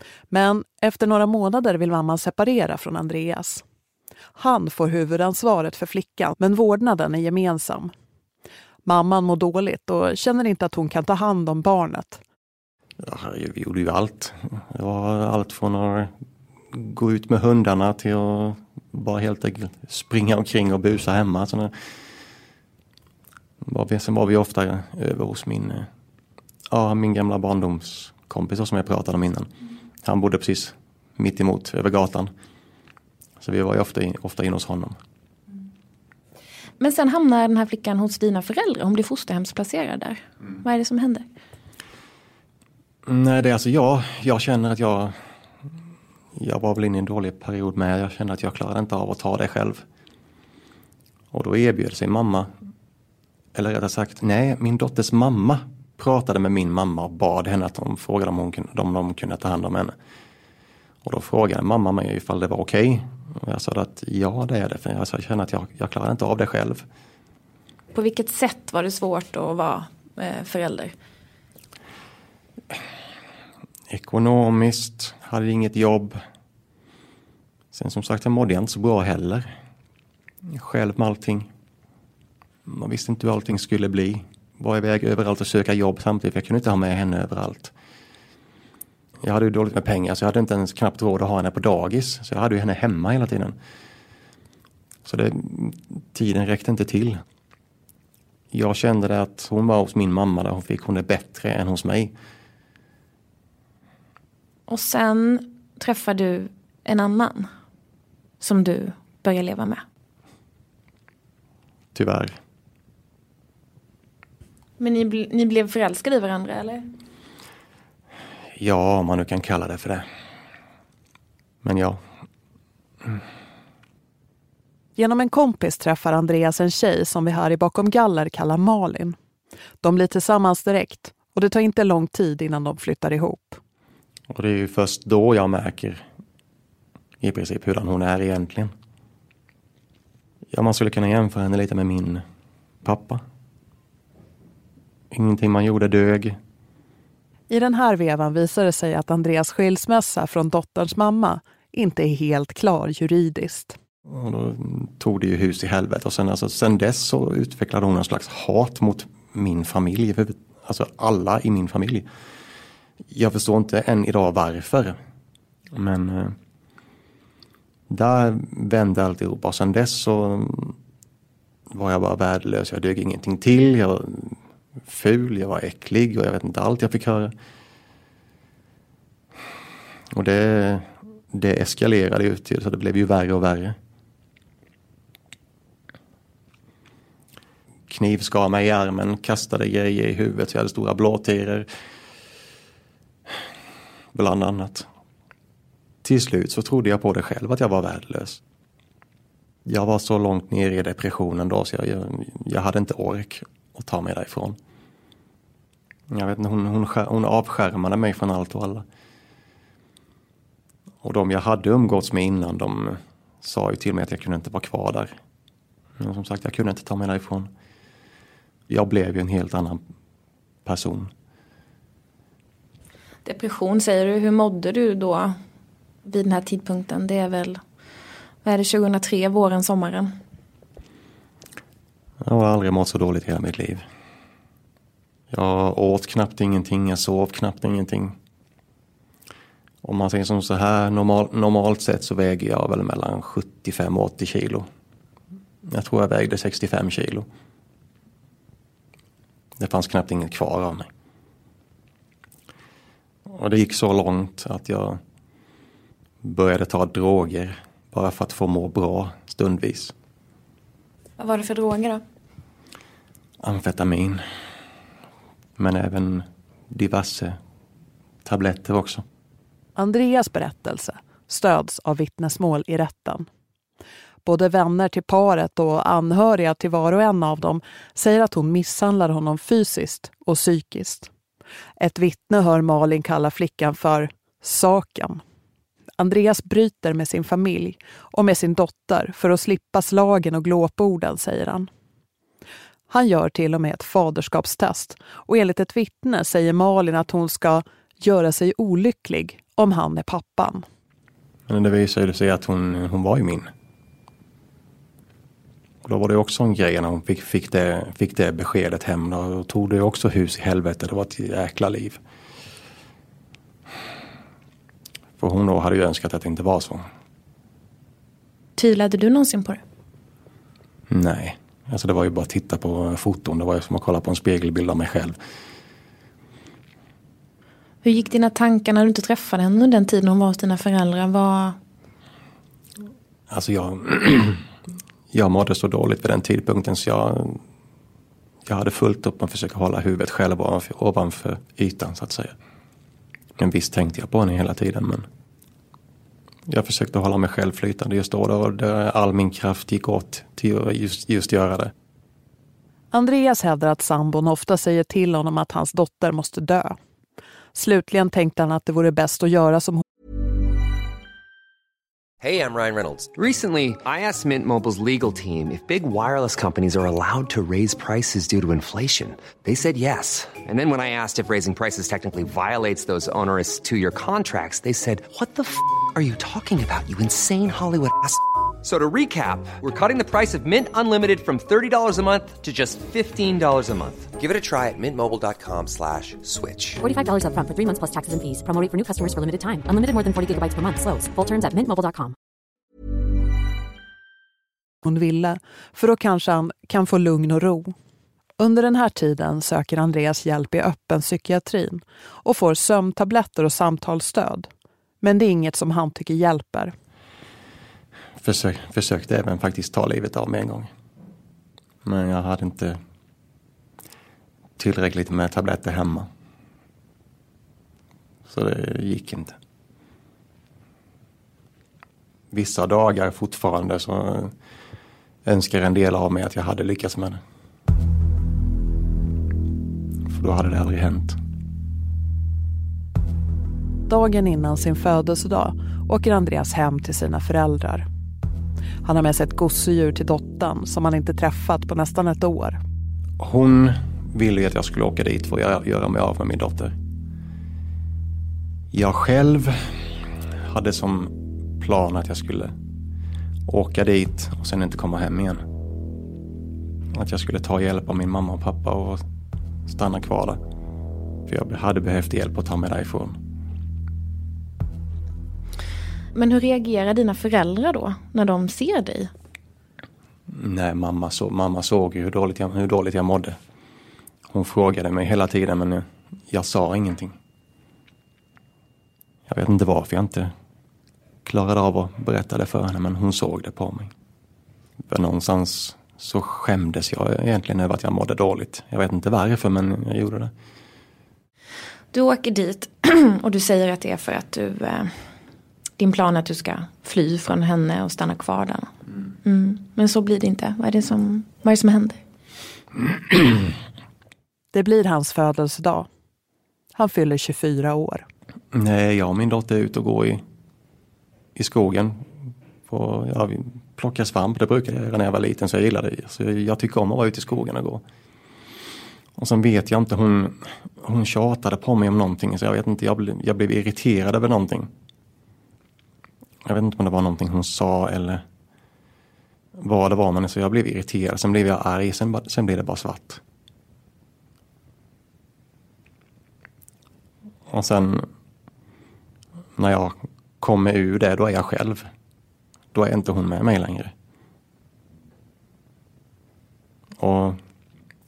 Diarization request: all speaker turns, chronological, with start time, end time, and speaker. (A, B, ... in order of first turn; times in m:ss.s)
0:00.3-0:03.6 A
0:04.4-0:07.9 A
0:08.8-0:12.2 A
0:13.0-0:16.1 B
0:16.7-0:21.7 B
0:23.6-0:25.9 B
0:26.7-0:29.5 B
0:30.0-0:32.3 B
0:33.4-0:35.0 B
0:36.8-0:41.2 C
0:43.0-0:45.2 B
0:46.4-0:49.8 B
0:51.3-0:52.5 B
0:53.5-0:59.9 B
1:01.0-1:06.8 B
1:07.9-1:10.9 C
1:13.9-1:16.2 B
1:17.7-1:19.5 B
1:20.5-1:21.5 B
1:22.6-1:27.7 B
1:29.2-1:33.6 B
1:35.0-1:37.2 B
1:38.5-1:42.1 B
1:44.7-1:47.5 C
1:48.4-1:49.8 C
1:51.9-1:52.4 B
1:54.8-1:56.9 C
1:58.6-2:00.0 B
2:01.6-2:02.0 B
2:05.0-2:09.2 A
2:09.8-2:13.6 A
2:14.3-2:16.0 B
2:17.2-2:18.7 B
2:20.5-2:22.2 B
2:22.8-2:23.2 B
2:25.1-2:26.4 B
2:27.5-2:33.8 A
2:34.1-2:42.1 B
2:43.1-2:45.0 B
2:45.7-2:46.4 B
2:47.9-2:50.8 B
2:51.7-2:57.3 B
3:00.1-3:03.8 B
3:07.9-3:11.7 B
3:14.1-3:14.9 B
3:16.0-3:18.4 B
3:19.6-3:24.6 B
3:26.1-3:28.8 B
3:31.0-3:35.2 B
3:36.0-3:37.5 B
3:38.7-3:39.8 B
3:40.6-3:41.1 B
3:43.2-3:45.4 C
3:46.0-3:47.6 C
3:48.4-3:50.1 C
3:52.2-3:53.8 B
3:55.3-3:58.2 B
3:59.8-4:04.6 B
4:05.6-4:07.3 B
4:09.6-4:10.9 B
4:13.3-4:15.0 B
4:16.2-4:19.9 B
4:21.2-4:22.0 C
4:23.4-4:24.2 B
4:25.6-4:27.4 B
4:28.2-4:29.0 B
4:29.8-4:33.3 A
4:34.2-4:41.1 A
4:41.8-4:45.2 A
4:46.0-4:51.7 A
4:52.9-5:00.6 A
5:01.5-5:03.5 B
5:05.8-5:12.0 B
5:15.2-5:16.9 B
5:18.6-5:19.6 C
5:20.9-5:25.2 B
5:27.8-5:31.6 C
5:33.3-5:34.4 B
5:35.1-5:37.4 B
5:38.4-5:42.3 B
5:43.4-5:45.0 B
5:46.5-5:51.7 B
5:52.9-5:56.8 A
5:57.5-5:59.8 A
6:02.2-6:26.8 D
6:26.8-6:32.2 E
6:34.8-6:37.7 A
6:38.4-6:44.5 A
6:45.0-6:46.7 A
6:48.2-6:50.7 B
6:51.8-6:52.8 B
6:54.6-6:56.1 B
6:58.3-6:59.4 B
7:02.3-7:04.3 B
7:05.2-7:07.2 B
7:10.1-7:11.2 B
7:13.9-7:17.8 A
7:18.8-7:22.6 A
7:23.2-7:26.7 B
7:28.7-7:32.5 B
7:33.5-7:35.4 B
7:36.9-7:39.0 B
7:39.7-7:40.4 B
7:41.2-7:43.2 B
7:46.1-7:49.1 C
7:50.3-7:53.4 B
7:54.3-7:57.2 B
7:59.3-8:00.3 B
8:01.2-8:03.9 B
8:04.9-8:10.3 B
8:11.9-8:14.9 C
8:15.8-8:18.7 C
8:19.2-8:22.0 C
8:24.5-8:25.9 A
8:26.7-8:28.0 A
8:28.5-8:30.2 B
8:31.3-8:32.1 B
8:32.7-8:37.8 B
8:39.2-8:44.7 B
8:46.4-8:48.2 B
8:49.6-8:53.2 B
8:57.5-8:58.1 B
8:59.6-9:01.9 B
9:02.7-9:03.9 B
9:07.0-9:07.4 B